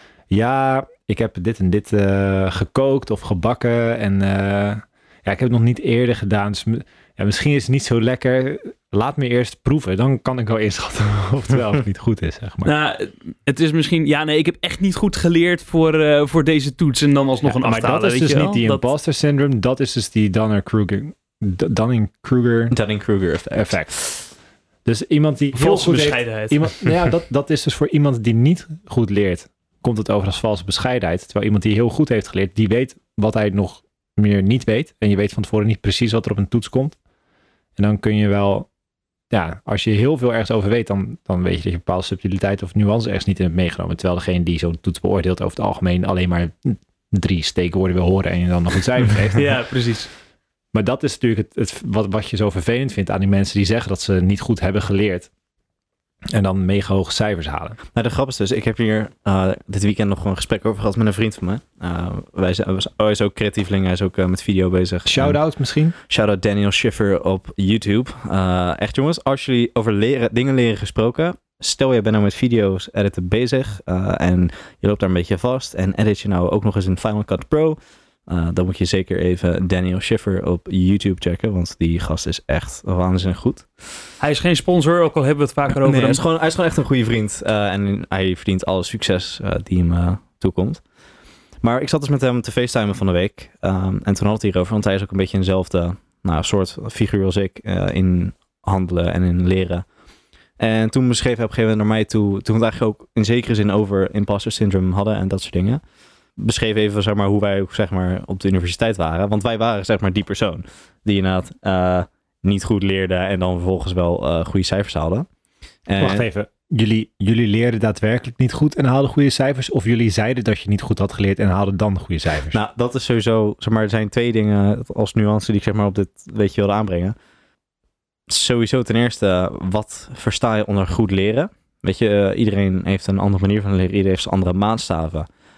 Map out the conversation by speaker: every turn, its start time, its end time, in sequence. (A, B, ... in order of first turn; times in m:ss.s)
0:00.3-0:12.7 A
0:12.6-0:18.8 B
0:17.4-0:22.8 A
0:22.7-0:24.0 C
0:23.5-0:24.3 A
0:24.8-0:37.0 A
0:25.6-0:26.6 B
0:37.8-0:38.7 A
0:39.3-0:49.6 A
0:49.4-0:50.1 B
0:50.7-0:55.3 A
0:56.3-0:57.8 A
0:57.9-1:05.4 C
1:05.1-1:05.9 A
1:06.0-1:24.0 C
1:24.2-1:26.2 B
1:25.7-1:30.8 C
1:31.6-1:39.9 C
1:40.6-1:45.8 C
1:46.4-1:55.3 C
1:55.9-1:56.2 C
1:56.0-2:02.6 A
2:02.5-2:07.2 C
2:08.3-2:15.3 C